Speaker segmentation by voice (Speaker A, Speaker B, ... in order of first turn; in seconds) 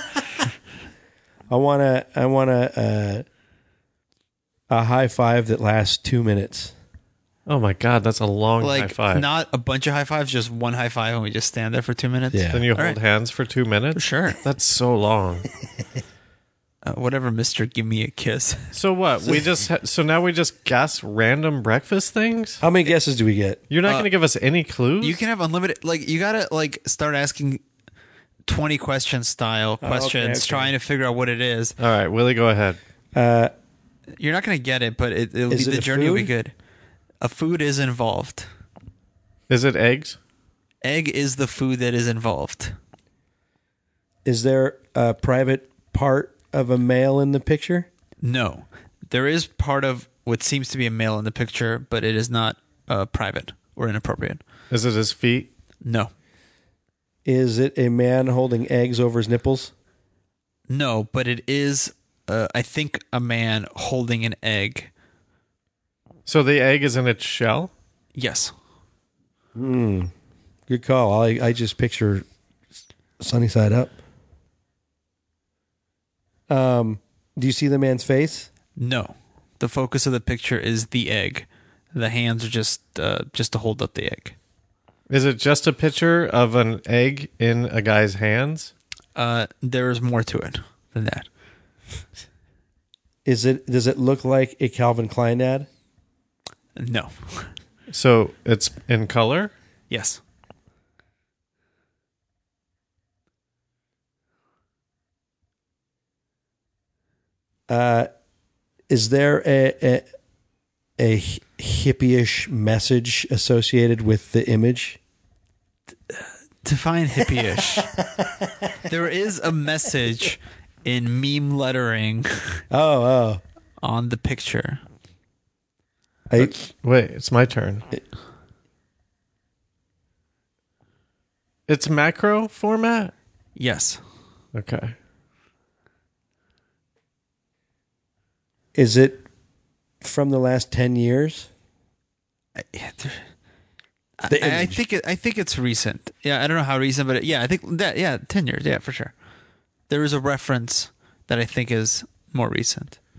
Speaker A: 1.5-3.2, 4.7-6.7, 12.3-12.7, 22.6-23.6, 29.8-30.7, 33.1-33.5, 35.5-36.3, 44.2-47.9, 57.2-59.7, 69.6-70.1, 70.7-72.2, 73.2-73.9, 76.5-78.5, 93.2-95.7, 107.7-108.1, 108.9-110.0, 111.0-115.0, 117.4-118.8, 122.7-123.4, 126.3-126.6, 138.8-139.3, 140.0-141.5, 144.3-144.8
Speaker B: 7.5-9.3, 12.5-15.5, 18.7-22.6, 23.7-25.2, 31.8-32.8, 39.5-40.2, 54.7-55.5, 66.3-67.7, 85.1-88.7, 97.9-99.5, 126.4-127.9, 131.7-133.1, 134.5-134.9
Speaker C: 8.6-13.0, 13.9-14.4, 16.9-18.8, 25.0-27.6, 28.5-31.8, 34.2-36.5, 37.2-38.5, 40.8-42.8, 48.2-54.4, 55.8-56.1, 60.7-64.9, 68.2-68.5, 78.8-84.4, 89.2-91.3, 96.8-97.5, 99.9-100.2, 116.1-117.9, 118.9-122.6, 123.8-124.8, 133.6-134.0, 142.6-143.2, 144.2-149.1, 149.9-153.0